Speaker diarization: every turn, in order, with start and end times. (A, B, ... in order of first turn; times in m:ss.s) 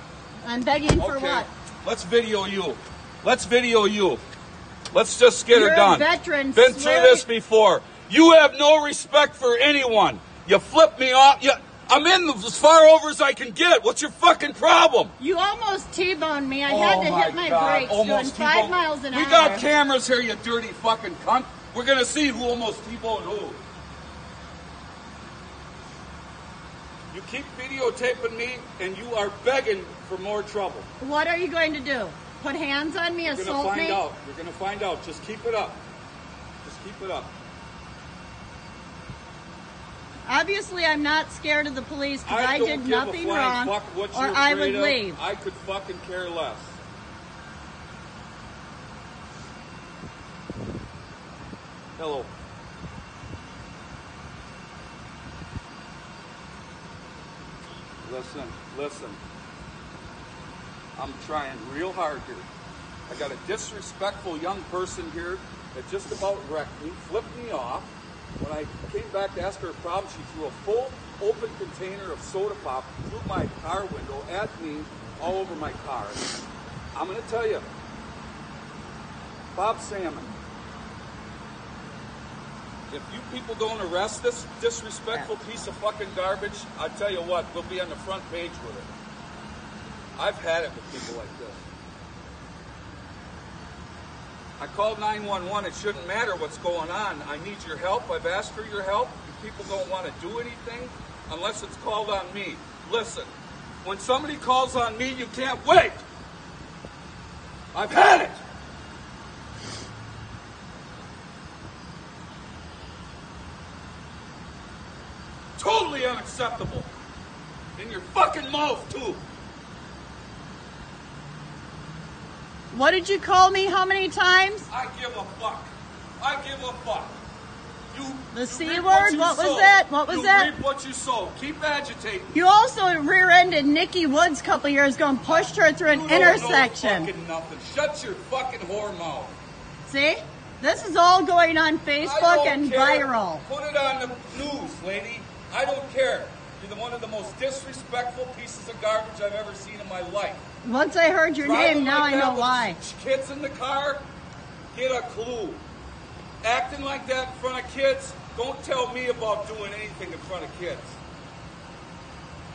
0:00.4-0:01.5 A
0:01.0-0:04.2 B
0:04.9-0:15.1 B
0:05.5-0:07.2 A
0:15.2-0:19.7 A
0:16.7-0:23.6 B
0:27.1-0:30.9 B
0:31.0-0:34.0 A
0:33.3-0:35.8 B
0:36.6-0:37.3 B
0:40.3-0:45.2 A
0:42.2-0:46.8 B
0:52.0-0:52.3 B
0:58.0-0:59.2 B
1:01.0-1:02.5 B
1:03.1-1:16.3 B
1:16.9-1:17.6 B
1:19.5-1:20.3 B
1:22.9-1:28.9 B
1:30.2-1:31.6 B
1:34.6-1:43.3 B
1:43.8-1:46.0 B
1:47.7-1:48.4 B
1:55.6-1:56.9 B
1:57.8-1:59.2 B
2:02.7-2:04.7 A
2:04.7-2:07.2 B
2:07.9-2:12.3 B
2:08.3-2:10.5 A
2:12.3-2:17.1 A
2:15.3-2:19.4 B
2:19.9-2:23.4 A
2:22.0-2:30.4 B
2:30.6-2:32.8 A
2:31.4-2:34.0 B
2:34.7-2:35.6 B
2:36.4-2:41.0 B